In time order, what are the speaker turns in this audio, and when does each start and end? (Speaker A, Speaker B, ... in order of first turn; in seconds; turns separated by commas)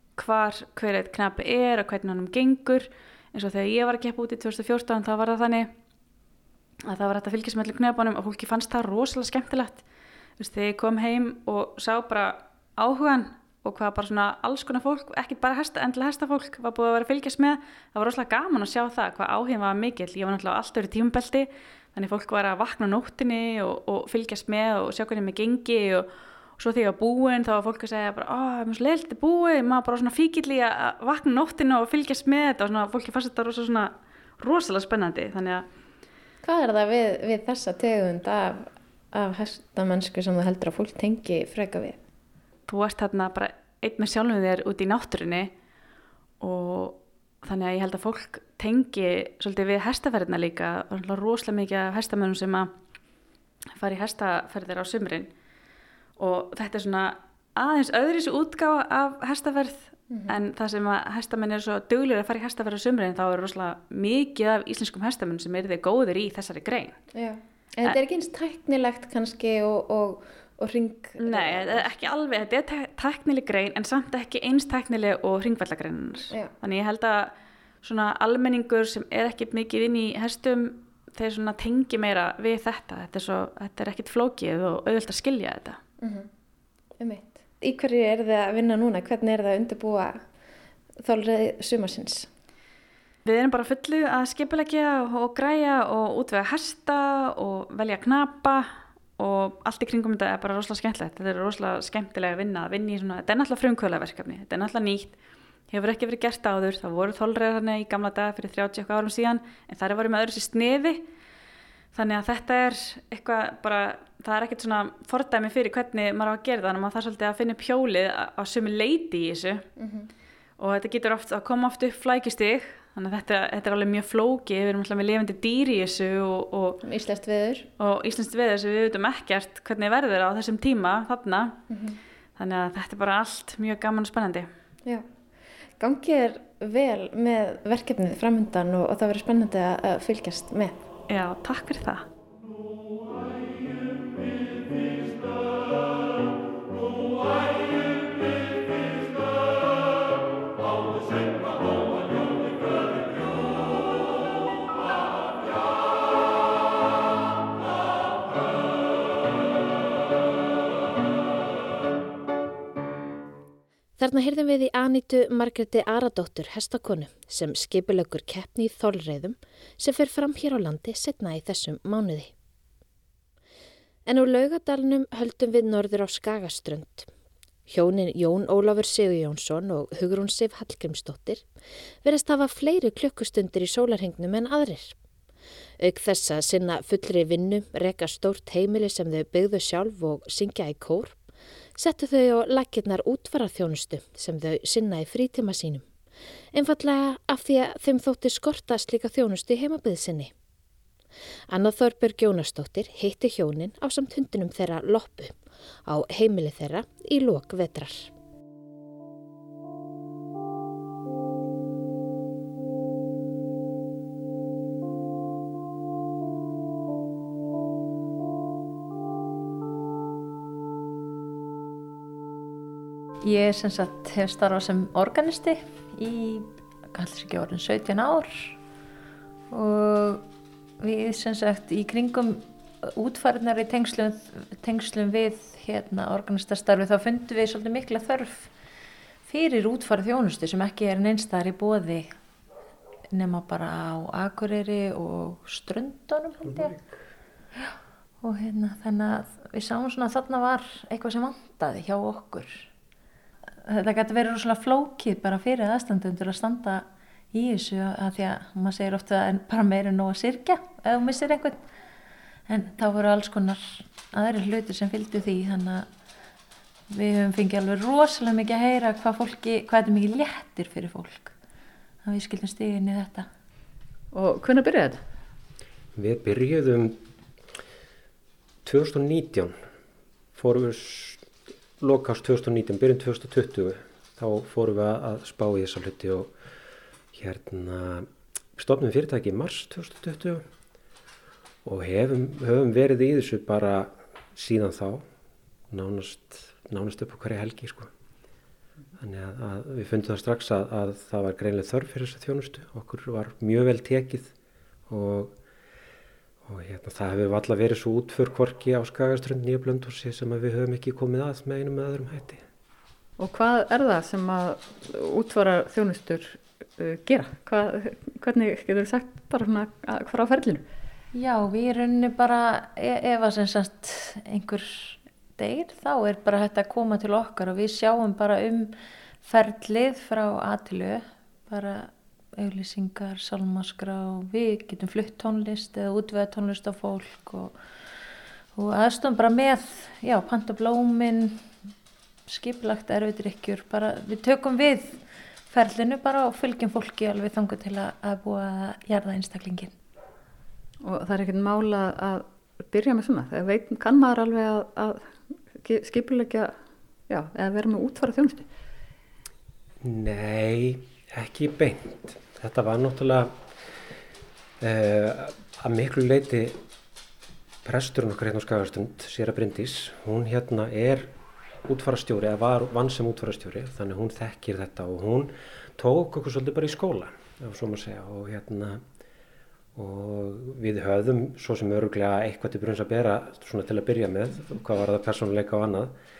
Speaker A: 0.2-5.7, Speaker A: 6.8-9.8, Speaker A: 10.4-35.7, Speaker B: 36.4-42.0, Speaker A: 42.7-45.5, Speaker A: 46.4-52.7, Speaker A: 53.7-55.3, Speaker A: 56.2-67.0, Speaker B: 60.1-60.4, Speaker B: 67.2-71.9, Speaker A: 71.2-85.8, Speaker B: 86.0-86.3, Speaker B: 87.0-90.2, Speaker B: 91.0-92.3, Speaker A: 93.2-105.2, Speaker A: 105.7-111.0, Speaker A: 111.9-119.6, Speaker B: 119.8-120.1, Speaker A: 120.6-126.8, Speaker B: 126.8-127.7, Speaker A: 127.8-131.6, Speaker B: 131.7-132.0, Speaker A: 132.4-134.5, Speaker B: 135.8-140.9, Speaker A: 141.1-142.1, Speaker C: 164.0-172.3, Speaker C: 174.1-177.1, Speaker C: 177.7-181.4, Speaker C: 182.0-184.9, Speaker C: 185.8-191.2, Speaker C: 191.8-195.9, Speaker C: 196.5-200.3, Speaker C: 201.5-208.1, Speaker D: 223.2-228.6, Speaker D: 229.5-230.2, Speaker D: 230.8-238.5, Speaker D: 239.3-242.1, Speaker D: 243.1-246.8, Speaker D: 247.6-252.7, Speaker D: 253.6-261.6, Speaker D: 262.5-265.9, Speaker D: 266.9-271.3, Speaker D: 272.0-273.3, Speaker E: 274.1-275.0, Speaker F: 276.0-277.0, Speaker F: 278.6-279.6, Speaker F: 280.3-281.3, Speaker F: 281.8-286.3, Speaker F: 287.1-290.5, Speaker F: 291.6-295.1, Speaker F: 295.7-297.9, Speaker F: 299.0-304.3, Speaker F: 304.9-305.4, Speaker F: 306.4-312.4, Speaker E: 313.2-320.6, Speaker D: 321.1-328.7, Speaker D: 329.2-337.6, Speaker D: 338.6-341.4, Speaker D: 342.3-349.7, Speaker E: 350.8-356.5, Speaker E: 357.1-358.4, Speaker F: 359.8-363.3, Speaker F: 364.6-366.6, Speaker F: 367.6-371.1, Speaker F: 371.6-378.8, Speaker F: 379.8-385.9